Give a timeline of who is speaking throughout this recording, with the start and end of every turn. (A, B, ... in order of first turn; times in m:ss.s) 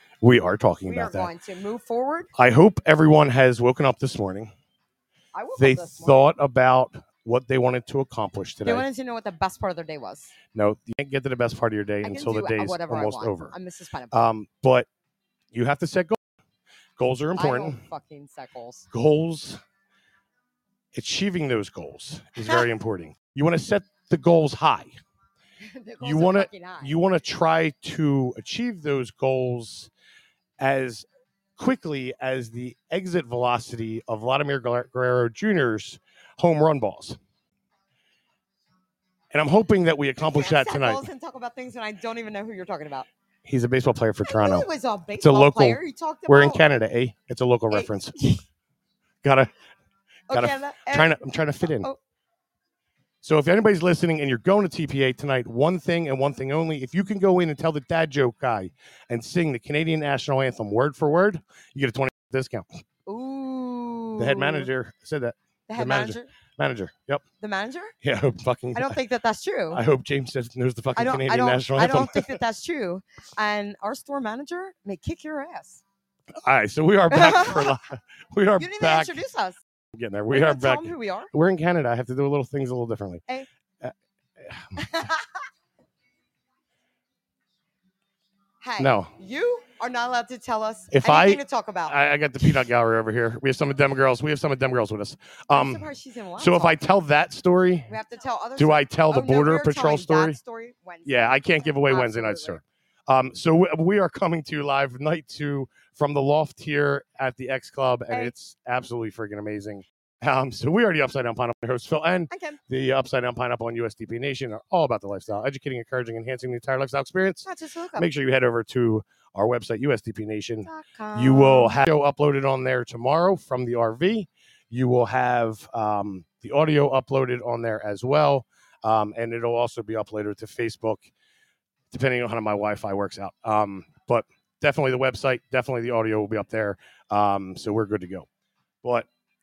0:00.2-0:01.3 A
0:00.8-0:02.3 B
0:02.3-0:04.5 A
0:05.3-0:06.3 B
0:05.6-0:08.9 A
0:08.6-0:10.3 B
0:10.5-0:13.5 A
0:12.0-0:14.2 B
0:14.1-0:14.9 A
0:15.5-0:16.2 A
0:17.0-0:17.8 A
0:17.4-0:18.9 B
0:18.9-0:19.6 A
0:20.9-0:25.0 A
0:25.6-0:26.9 B
0:26.0-0:29.9 A
0:30.6-0:37.2 A
0:39.3-0:41.0 A
0:40.2-0:43.1 B
0:43.4-0:44.7 A
0:44.3-0:46.6 B
0:45.2-0:48.2 A
0:47.7-0:48.4 B
0:49.2-0:49.5 A
0:50.3-0:51.9 A
0:50.3-0:52.0 B
0:53.2-1:02.7 A
1:03.1-1:04.7 B
1:04.2-1:07.2 A
1:05.7-1:06.3 B
1:07.4-1:07.9 B
1:08.0-1:09.0 A
1:08.7-1:09.8 B
1:09.7-1:12.4 A
1:10.9-1:15.8 B
1:16.4-1:19.2 A
1:17.1-1:17.7 B
1:18.6-1:19.6 B
1:19.9-1:23.2 A
1:20.3-1:21.3 B
1:23.8-1:24.7 A
1:24.8-1:25.3 B
1:28.6-1:32.5 B
1:28.8-1:29.1 A
1:30.9-1:35.8 A
1:35.5-1:36.7 B
1:36.4-1:38.0 A
1:37.9-1:42.6 B
1:38.6-1:40.4 A
1:41.0-2:11.1 A
1:52.3-1:52.6 B
1:57.4-1:58.1 B
2:00.6-2:01.8 B
2:11.9-2:18.3 A
2:18.8-2:19.1 A